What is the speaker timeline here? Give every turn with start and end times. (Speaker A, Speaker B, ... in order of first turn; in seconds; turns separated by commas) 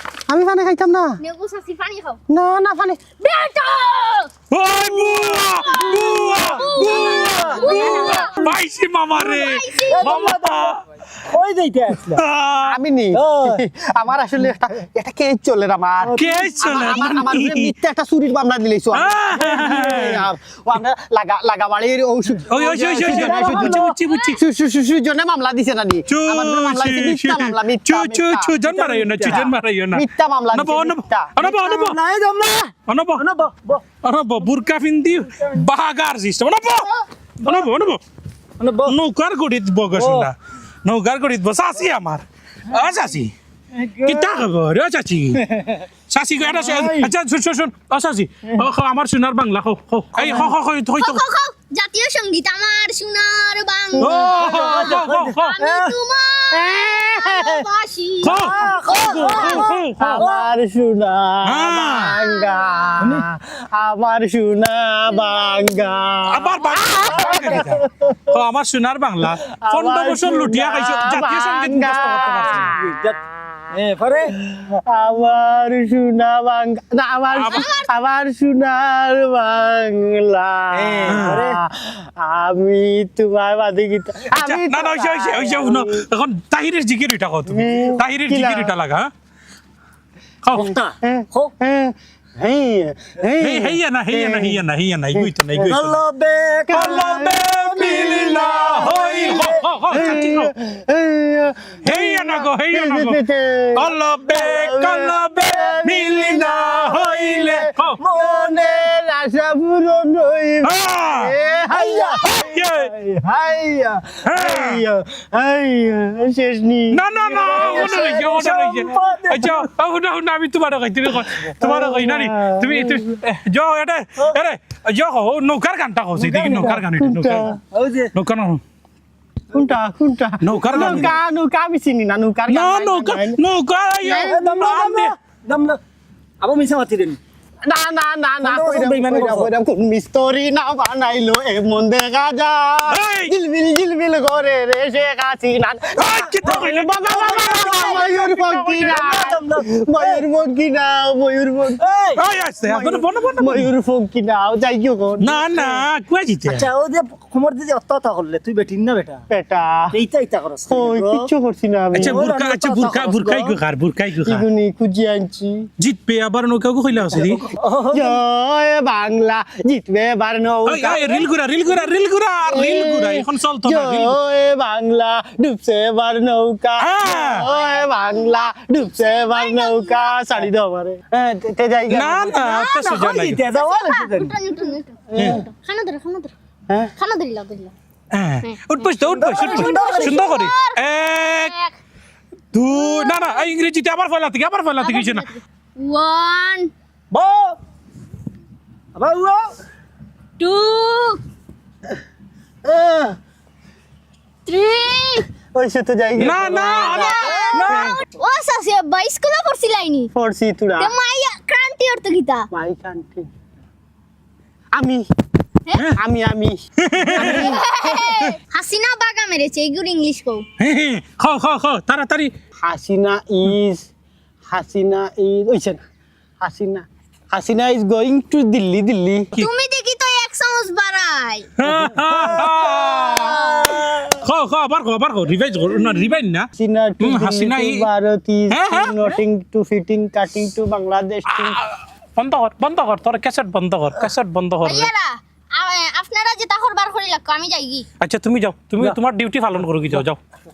Speaker A: 0.3-1.2, Speaker B: 1.2-2.2, Speaker A: 2.3-3.2, Speaker B: 3.2-4.3, Speaker C: 4.5-10.8, Speaker B: 4.9-8.3, Speaker D: 6.6-7.6, Speaker A: 6.8-7.1, Speaker A: 7.6-8.5, Speaker B: 9.2-10.2, Speaker D: 9.9-10.8, Speaker D: 11.3-12.2, Speaker C: 12.0-12.8, Speaker A: 12.7-28.6, Speaker D: 13.1-13.6, Speaker C: 16.2-17.7, Speaker C: 18.9-20.3, Speaker C: 22.5-24.4, Speaker D: 22.9-23.9, Speaker C: 26.1-32.0, Speaker D: 28.7-29.5, Speaker A: 29.2-31.3, Speaker D: 31.4-33.8, Speaker C: 32.9-33.2, Speaker C: 34.0-36.9, Speaker C: 37.4-38.0, Speaker D: 38.6-39.0, Speaker C: 38.9-40.3, Speaker D: 39.9-40.3, Speaker C: 40.9-43.3, Speaker D: 43.8-44.2, Speaker C: 44.0-51.2, Speaker D: 46.5-47.1, Speaker D: 50.2-50.5, Speaker B: 51.0-54.2, Speaker C: 54.0-55.6, Speaker A: 54.0-54.7, Speaker D: 54.2-56.0, Speaker B: 55.5-59.7, Speaker A: 56.5-57.6, Speaker C: 58.2-60.2, Speaker D: 58.4-60.5, Speaker A: 59.4-68.4, Speaker C: 61.5-62.1, Speaker B: 62.0-62.9, Speaker B: 65.1-65.6, Speaker C: 66.3-72.7, Speaker D: 67.2-67.6, Speaker A: 69.5-72.8, Speaker D: 72.5-73.2, Speaker D: 73.7-74.3, Speaker A: 74.5-86.0, Speaker C: 77.4-77.7, Speaker B: 77.4-77.9, Speaker D: 80.7-81.6, Speaker C: 81.1-81.4, Speaker C: 84.3-89.1, Speaker A: 87.5-88.7, Speaker C: 90.4-90.7, Speaker A: 90.6-94.6, Speaker D: 90.6-91.5, Speaker C: 93.4-96.0, Speaker A: 95.2-95.7, Speaker D: 95.7-97.0, Speaker A: 96.7-118.3, Speaker C: 96.7-100.5, Speaker D: 97.7-99.6, Speaker C: 101.8-103.2, Speaker C: 103.8-108.0, Speaker D: 108.0-108.8, Speaker C: 110.7-111.3, Speaker D: 111.7-112.2, Speaker C: 112.2-112.9, Speaker C: 114.3-114.8, Speaker C: 116.9-127.5, Speaker D: 117.4-119.6, Speaker A: 121.3-123.2, Speaker D: 126.2-126.8, Speaker A: 126.9-127.6, Speaker D: 127.7-128.1, Speaker C: 128.1-128.6, Speaker A: 129.5-133.4, Speaker C: 130.4-131.1, Speaker D: 130.7-131.1, Speaker C: 132.5-135.1, Speaker A: 134.0-134.5, Speaker D: 134.1-135.8, Speaker D: 136.4-137.2, Speaker A: 137.7-151.8, Speaker D: 138.4-139.5, Speaker C: 142.9-143.3, Speaker C: 146.0-148.1, Speaker D: 147.3-150.2, Speaker D: 151.8-152.2, Speaker C: 152.2-153.7, Speaker A: 152.6-155.8, Speaker C: 155.2-156.7, Speaker D: 156.4-159.2, Speaker A: 159.3-159.9, Speaker D: 159.9-161.3, Speaker A: 160.7-162.2, Speaker C: 161.9-164.4, Speaker D: 162.0-163.6, Speaker A: 164.2-165.7, Speaker C: 165.8-167.4, Speaker D: 167.1-168.2, Speaker A: 167.9-171.2, Speaker C: 170.7-174.2, Speaker A: 172.5-182.4, Speaker C: 176.8-177.5, Speaker B: 178.1-180.3, Speaker C: 181.9-183.4, Speaker B: 182.4-182.8, Speaker D: 182.5-184.4, Speaker B: 183.5-186.3, Speaker A: 185.1-185.5, Speaker B: 187.0-187.7, Speaker C: 188.1-191.5, Speaker B: 188.4-190.8, Speaker D: 189.1-190.3, Speaker B: 191.3-191.8, Speaker C: 192.5-195.3, Speaker B: 192.7-193.5, Speaker B: 194.8-196.7, Speaker D: 197.1-197.6, Speaker D: 198.9-199.5, Speaker B: 200.4-201.2, Speaker A: 202.7-203.1, Speaker B: 204.5-205.3, Speaker A: 205.5-208.0, Speaker C: 206.2-207.6, Speaker B: 206.5-210.1, Speaker A: 210.1-210.9, Speaker B: 210.8-212.5, Speaker A: 212.5-213.3, Speaker A: 214.7-215.1, Speaker A: 216.0-217.7, Speaker C: 216.8-217.4, Speaker B: 217.1-220.5, Speaker C: 220.6-222.3, Speaker A: 222.6-223.9, Speaker A: 224.5-225.8, Speaker A: 226.4-229.3, Speaker B: 229.4-231.6, Speaker C: 231.6-236.5, Speaker A: 231.7-232.4, Speaker B: 232.8-233.6, Speaker A: 236.6-241.6, Speaker C: 237.0-237.8, Speaker C: 238.5-239.1, Speaker C: 241.3-244.9, Speaker B: 244.6-247.9, Speaker C: 248.0-250.2